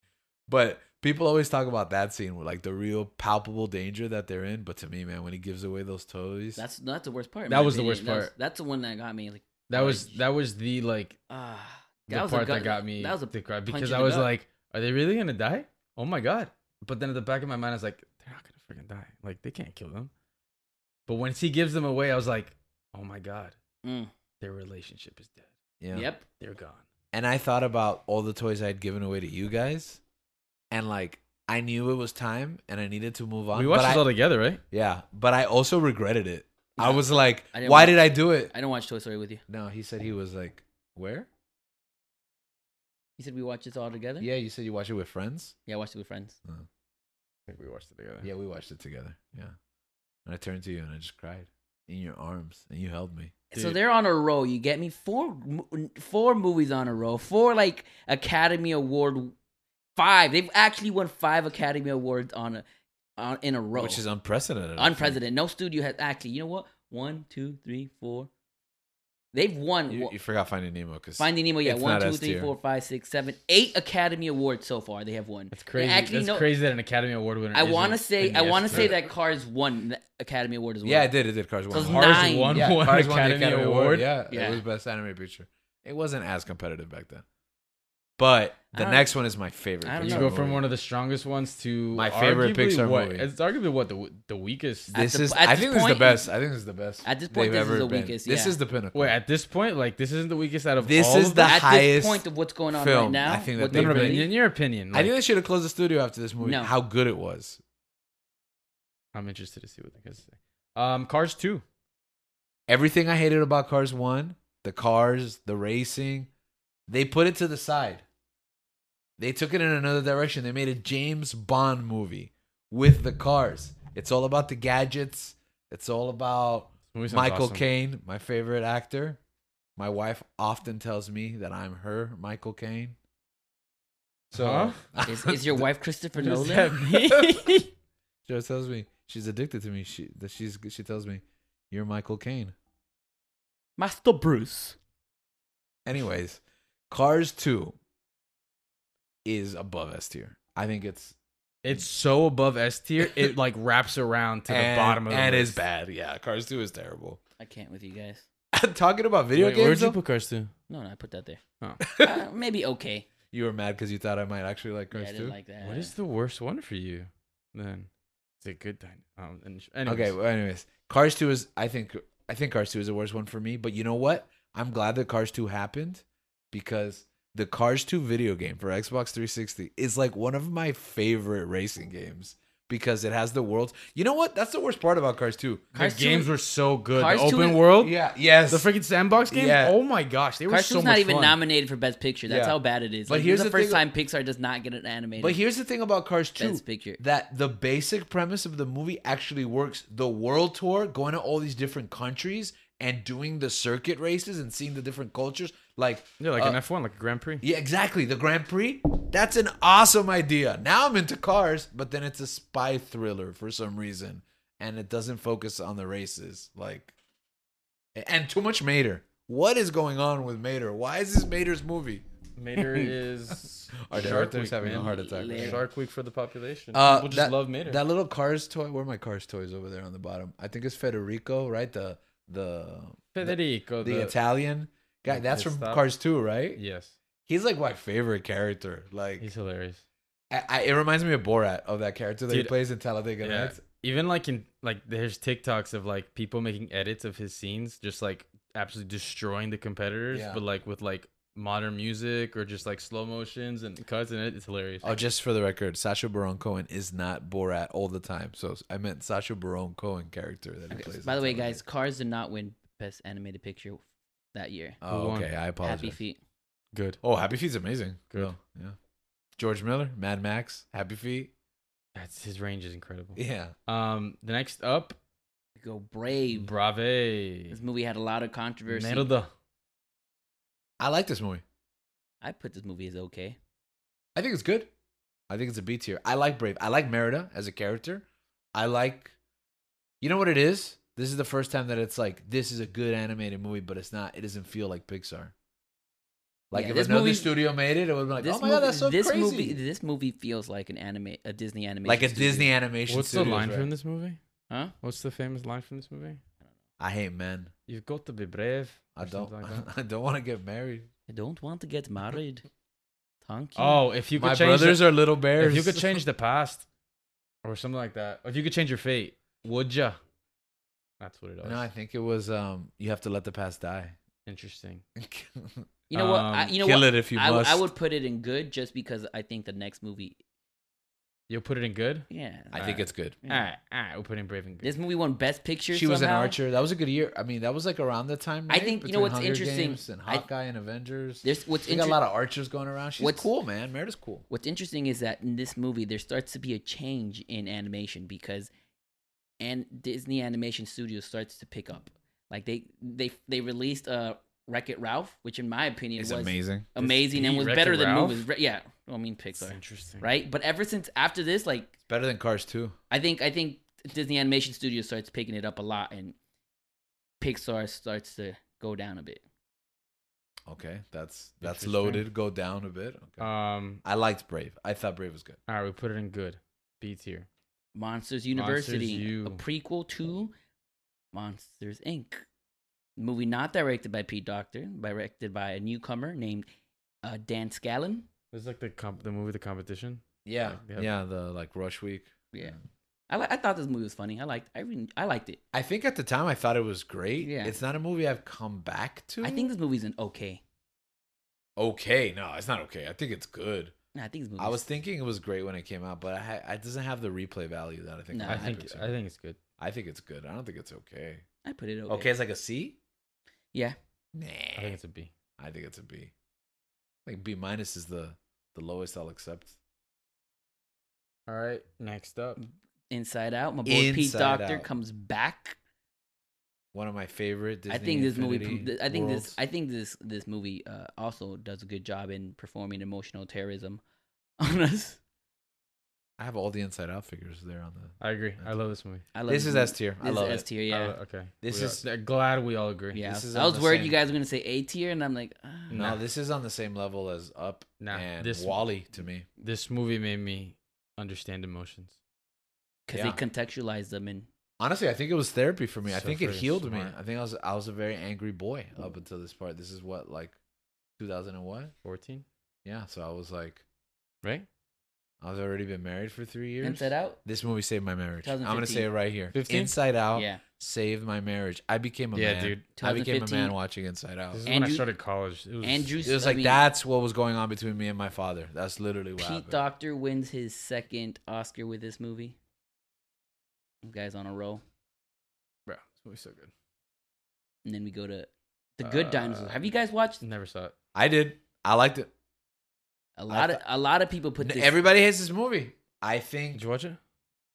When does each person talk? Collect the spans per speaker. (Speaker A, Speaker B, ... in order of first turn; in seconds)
Speaker A: 0.5-6.6, 25.8-26.1, 27.1-30.0, 30.7-34.1, 34.7-38.5, 39.5-41.3, 44.2-45.5, 48.2-49.5, 50.3-53.4, 63.8-65.2, 69.9-72.5, 78.7-79.0, 80.8-87.2, 88.2-90.7, 91.9-93.3, 94.9-99.1, 100.8-104.3, 104.9-107.6, 112.7-116.3, 116.9-118.0, 119.2-129.2, 129.8-133.0, 134.3-135.7, 137.0-137.4, 138.3-142.6, 145.8-147.8, 149.2-151.2, 153.0-153.3, 154.5-157.2, 158.5-160.0, 161.8-162.2, 163.3-165.4, 169.9-185.7, 187.8-188.7, 189.3-189.8, 192.3-193.8, 195.2-206.6, 207.4-216.9, 217.9-222.0, 222.6-222.9, 223.8-225.6, 226.7-236.6, 237.3-239.3, 240.3-243.6, 250.1-250.4, 254.8-261.6, 264.8-266.0, 267.0-268.8, 269.4-271.3, 273.2-273.6, 280.8-281.4, 284.1-284.7, 285.3-289.1, 290.0-295.3, 296.5-299.6, 301.9-303.7, 306.8-307.5, 308.9-310.9, 314.2-316.0, 321.4-324.0, 325.0-325.7, 326.6-327.7, 332.5-333.2, 335.7-344.3, 356.0-356.7, 361.9-362.8, 370.5-373.3, 373.8-375.4, 390.2-392.5, 395.5-399.5, 401.6-403.7, 404.4-408.9, 409.6-411.2, 411.9-412.8, 414.1-414.8, 415.4-416.1, 417.1-419.6, 423.6-424.7, 426.7-429.4, 436.2-438.5, 439.3-440.5, 441.4-441.8, 443.0-444.0, 445.7-449.3, 452.9-453.2, 454.6-460.4, 461.0-461.7, 462.6-463.6, 465.2-474.4, 476.0-479.6, 490.9-492.1, 493.3-493.6, 494.4-496.6
Speaker B: 6.6-10.2, 11.3-14.3, 23.8-24.1, 25.9-26.2, 36.8-39.4, 43.2-44.3, 45.7-46.4, 53.5-59.4, 60.0-62.6, 63.2-64.0, 64.8-68.3, 69.3-70.1, 71.2-76.5, 77.5-81.1, 81.7-82.7, 84.3-84.6, 88.7-89.1, 89.8-90.4, 94.9-96.3, 97.0-98.6, 101.5-104.3, 106.4-106.7, 135.1-137.0, 143.8-144.8, 157.4-158.3, 160.7-161.4, 161.9-163.1, 164.9-165.9, 185.8-186.3, 186.9-187.6, 190.5-195.4, 196.4-197.0, 224.6-225.6, 260.7-263.8, 264.3-264.8, 265.6-266.2, 275.6-276.5, 277.5-279.1, 282.2-283.4, 296.5-297.3, 298.2-302.5, 311.1-312.4, 313.2-313.8, 325.9-330.2, 332.1-333.5, 334.6-336.4, 338.5-340.3, 341.2-342.0, 343.0-343.3, 344.3-348.5, 349.4-361.7, 362.9-366.2, 367.2-369.2, 377.8-380.3, 381.1-382.2, 383.0-386.5, 387.0-388.1, 393.1-395.4, 397.2-397.6, 399.2-400.4, 403.9-404.6, 408.1-408.6, 411.4-412.1, 422.4-425.6, 427.7-433.8, 434.4-435.0, 439.1-441.0, 442.9-445.9, 452.9-454.3, 466.6-467.2, 468.2-468.9, 470.1-470.4, 472.8-473.5, 474.5-474.9, 475.6-476.6, 479.2-482.4, 483.8-484.6, 487.6-490.2, 493.2-494.8
Speaker C: 7.5-8.3, 9.7-11.2, 12.1-20.1, 21.1-23.6, 24.4-25.5, 26.4-26.8, 33.5-34.6, 47.5-48.3, 75.5-79.0, 81.8-84.1, 90.0-94.9, 98.9-101.6, 103.7-105.1, 109.1-111.6, 126.9-127.6, 134.3-134.8, 136.2-137.7, 151.6-155.6, 159.4-160.5, 165.6-167.9, 168.4-170.1, 185.8-188.0, 188.5-191.4, 206.2-207.4, 222.4-227.8, 233.1-234.2, 235.1-235.8, 236.6-236.9, 239.2-239.8, 242.3-242.5, 243.2-254.9, 264.9-265.3, 266.7-267.0, 271.9-275.0, 276.3-277.6, 278.7-279.3, 302.9-304.2, 304.8-306.2, 307.7-309.7, 313.6-316.6, 317.4-320.0, 321.0-321.6, 324.3-324.8, 325.9-326.6, 331.3-334.7, 356.8-358.2, 359.4-360.1, 371.4-372.1, 373.2-373.8, 375.5-377.3, 378.4-379.4, 388.3-390.9, 408.3-409.4, 414.6-415.1, 421.3-422.4, 438.0-439.1, 440.7-443.0, 445.7-446.0, 447.8-448.6, 449.4-452.0, 455.9-456.9, 461.8-462.2, 469.3-469.7, 472.1-472.7, 474.3-476.0, 485.7-486.5, 488.8-489.6, 490.2-490.7, 496.6-497.0